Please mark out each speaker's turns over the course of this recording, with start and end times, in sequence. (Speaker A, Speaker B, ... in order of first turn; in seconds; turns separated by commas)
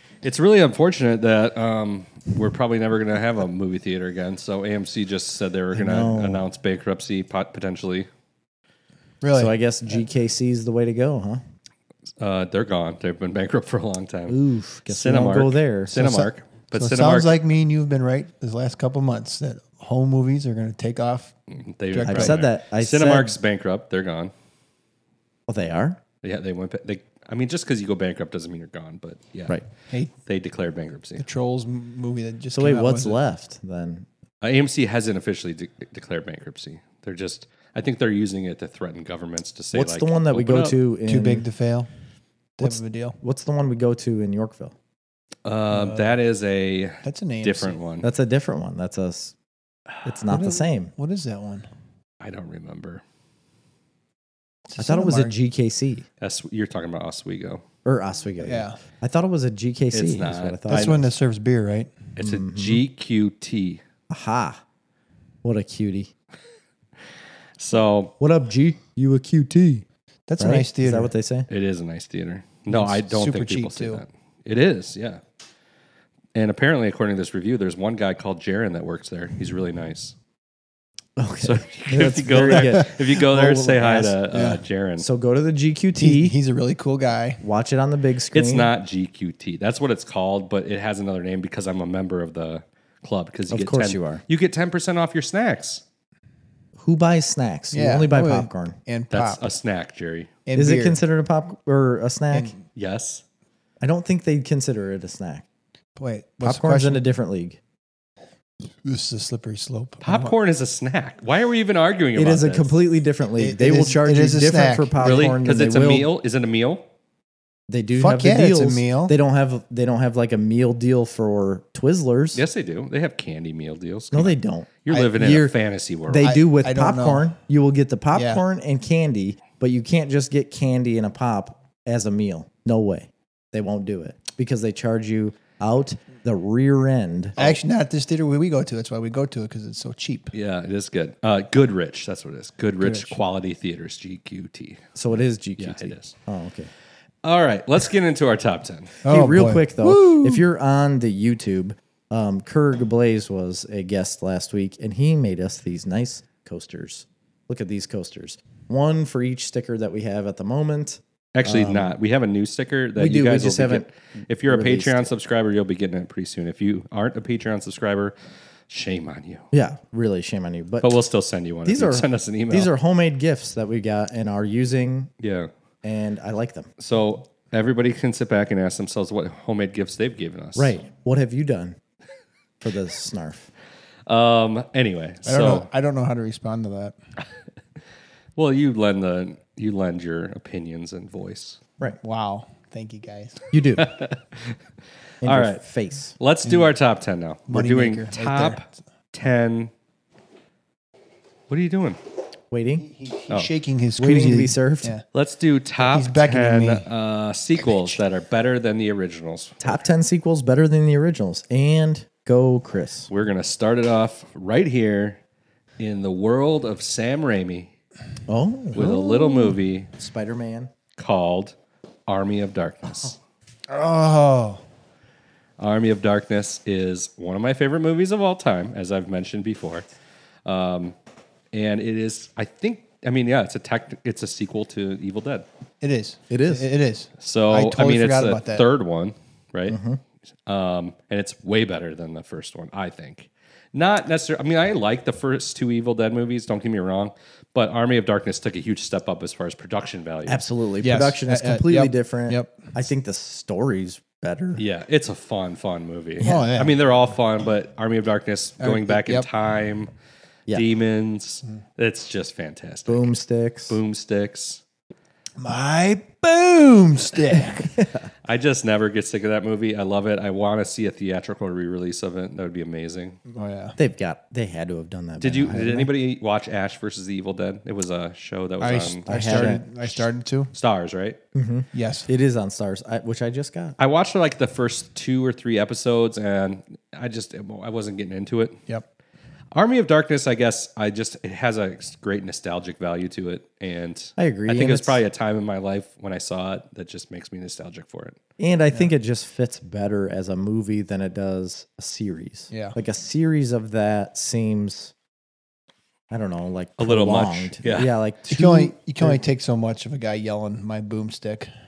Speaker A: 0.2-8.1, Speaker B: 5.7-6.5, Speaker C: 9.2-9.5, Speaker B: 9.3-11.4, Speaker A: 12.2-17.4, Speaker B: 14.3-16.2, Speaker C: 15.9-21.3, Speaker A: 21.5-24.3, Speaker C: 21.9-22.4, Speaker B: 22.1-23.3, Speaker B: 25.5-26.0, Speaker A: 26.2-29.6, Speaker A: 30.2-31.2, Speaker C: 31.2-33.2, Speaker B: 32.5-34.1, Speaker A: 34.4-40.8, Speaker B: 39.7-41.4, Speaker C: 41.1-41.9, Speaker C: 42.6-43.2, Speaker B: 42.6-44.7, Speaker A: 45.4-48.1, Speaker C: 45.7-46.1, Speaker C: 47.0-47.8, Speaker B: 48.0-49.3, Speaker B: 50.0-50.9, Speaker C: 50.3-51.7, Speaker A: 52.2-53.0, Speaker C: 54.7-55.3, Speaker B: 54.8-56.0, Speaker A: 56.2-57.6, Speaker B: 57.8-61.0, Speaker C: 58.4-58.8, Speaker A: 59.9-61.0, Speaker C: 60.7-62.0, Speaker A: 62.2-63.8, Speaker B: 62.2-62.8, Speaker B: 64.1-64.6, Speaker B: 65.4-66.1, Speaker A: 67.6-68.1, Speaker B: 68.2-69.8, Speaker C: 70.3-71.1, Speaker B: 70.4-71.5, Speaker A: 71.5-75.2, Speaker C: 72.7-74.0, Speaker A: 76.3-80.1, Speaker B: 81.2-84.2, Speaker A: 81.4-85.0, Speaker C: 82.5-82.8, Speaker C: 84.3-84.6, Speaker B: 85.0-86.3, Speaker C: 85.9-87.4, Speaker B: 87.4-88.7, Speaker A: 88.3-95.8, Speaker B: 93.5-94.2, Speaker B: 96.8-98.8, Speaker C: 97.7-99.5, Speaker A: 99.1-100.3, Speaker C: 100.5-101.0, Speaker B: 100.5-102.5, Speaker C: 102.3-102.6, Speaker A: 102.7-103.2, Speaker B: 103.8-105.4, Speaker C: 106.0-107.0, Speaker B: 106.4-107.6, Speaker C: 108.8-110.3, Speaker A: 110.0-112.8, Speaker B: 112.1-116.1, Speaker C: 113.4-115.4, Speaker A: 115.0-116.8, Speaker B: 117.7-122.4, Speaker C: 117.9-119.1, Speaker A: 122.3-126.3, Speaker B: 124.1-125.5, Speaker B: 126.1-137.4, Speaker C: 126.2-127.3, Speaker C: 128.1-128.4, Speaker C: 137.4-140.3, Speaker A: 140.3-144.9, Speaker C: 142.8-143.2, Speaker B: 144.9-146.7, Speaker A: 145.6-146.1, Speaker A: 147.2-149.0, Speaker C: 149.0-150.4, Speaker B: 149.0-161.9, Speaker A: 161.3-168.1, Speaker B: 162.9-163.9, Speaker B: 164.4-165.1, Speaker A: 168.7-169.5, Speaker B: 169.5-171.0, Speaker A: 170.8-172.7, Speaker B: 171.6-175.1, Speaker A: 175.2-175.5, Speaker B: 175.8-176.7, Speaker A: 176.8-180.8, Speaker B: 180.6-181.8, Speaker B: 182.6-183.5, Speaker A: 184.1-185.7, Speaker C: 185.2-186.9, Speaker A: 188.3-191.6, Speaker C: 192.0-193.4, Speaker B: 193.5-193.9, Speaker A: 193.8-194.6, Speaker B: 195.2-196.1, Speaker A: 195.2-195.6, Speaker A: 196.2-199.7, Speaker C: 197.5-198.6, Speaker A: 201.5-202.0, Speaker B: 202.5-202.9, Speaker C: 202.8-205.0, Speaker B: 204.0-204.9, Speaker A: 205.1-209.8, Speaker C: 205.8-206.9, Speaker B: 209.6-213.1, Speaker A: 213.1-215.2, Speaker A: 215.8-217.7, Speaker B: 218.3-220.7, Speaker A: 218.7-219.9, Speaker A: 221.0-221.5, Speaker A: 222.1-223.2, Speaker C: 223.7-224.6, Speaker A: 225.6-229.8, Speaker A: 230.4-230.9, Speaker A: 231.5-235.4, Speaker C: 235.8-238.7, Speaker B: 236.3-236.7, Speaker A: 237.2-239.8, Speaker B: 239.7-240.0, Speaker A: 240.4-250.4, Speaker B: 250.2-254.6, Speaker C: 250.8-252.7, Speaker A: 254.6-259.9, Speaker C: 256.2-256.7, Speaker C: 258.6-259.3, Speaker A: 260.5-263.1, Speaker B: 262.9-263.8, Speaker A: 263.7-264.6, Speaker C: 265.4-267.7, Speaker B: 267.7-268.1, Speaker A: 268.2-273.2, Speaker C: 273.3-273.8, Speaker B: 273.8-275.9, Speaker A: 275.2-279.6, Speaker C: 278.6-280.5, Speaker B: 279.1-279.6, Speaker A: 280.5-281.2, Speaker B: 281.3-283.8, Speaker C: 281.7-282.1, Speaker A: 283.8-288.6, Speaker A: 289.5-298.2, Speaker B: 294.2-295.0, Speaker B: 298.4-304.9, Speaker C: 302.5-302.8, Speaker B: 306.1-309.2, Speaker A: 306.8-307.9, Speaker C: 308.3-311.5